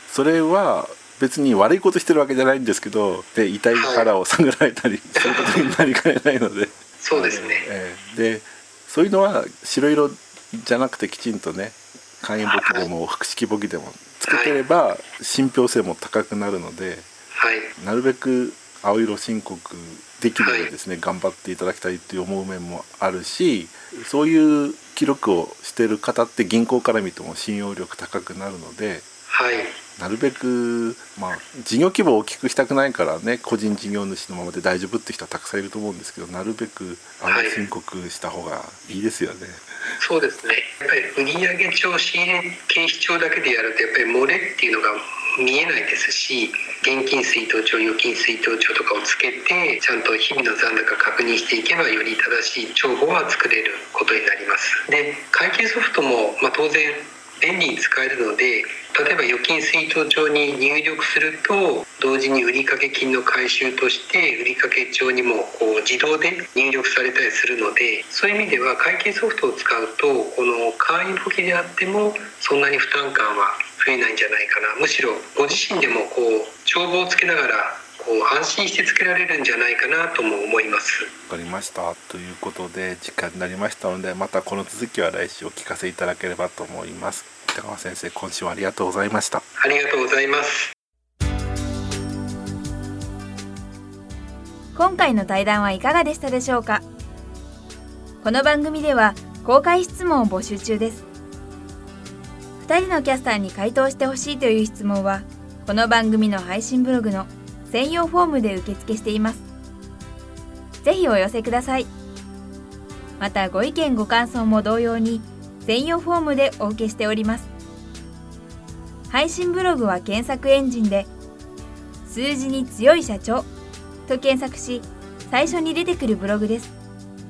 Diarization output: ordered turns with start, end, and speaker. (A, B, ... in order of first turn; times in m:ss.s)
0:00.1-0:17.0 A
0:03.7-0:04.1 B
0:05.2-0:05.7 B
0:07.0-0:07.6 B
0:12.5-0:12.9 B
0:14.3-0:14.6 B
0:17.3-0:17.7 B
0:17.8-0:29.0 A
0:20.4-0:20.7 B
0:29.3-0:29.8 B
0:30.0-0:39.6 A
0:37.3-0:37.6 B
0:40.0-1:21.1 B
1:21.3-1:29.4 A
1:29.6-1:30.7 B
1:34.7-1:36.8 C
1:38.2-1:41.0 C
1:42.6-1:49.4 C
1:50.8-1:51.9 C
1:53.2-1:57.5 C
1:59.1-2:01.1 C
2:02.0-2:03.5 C
2:04.0-2:06.7 C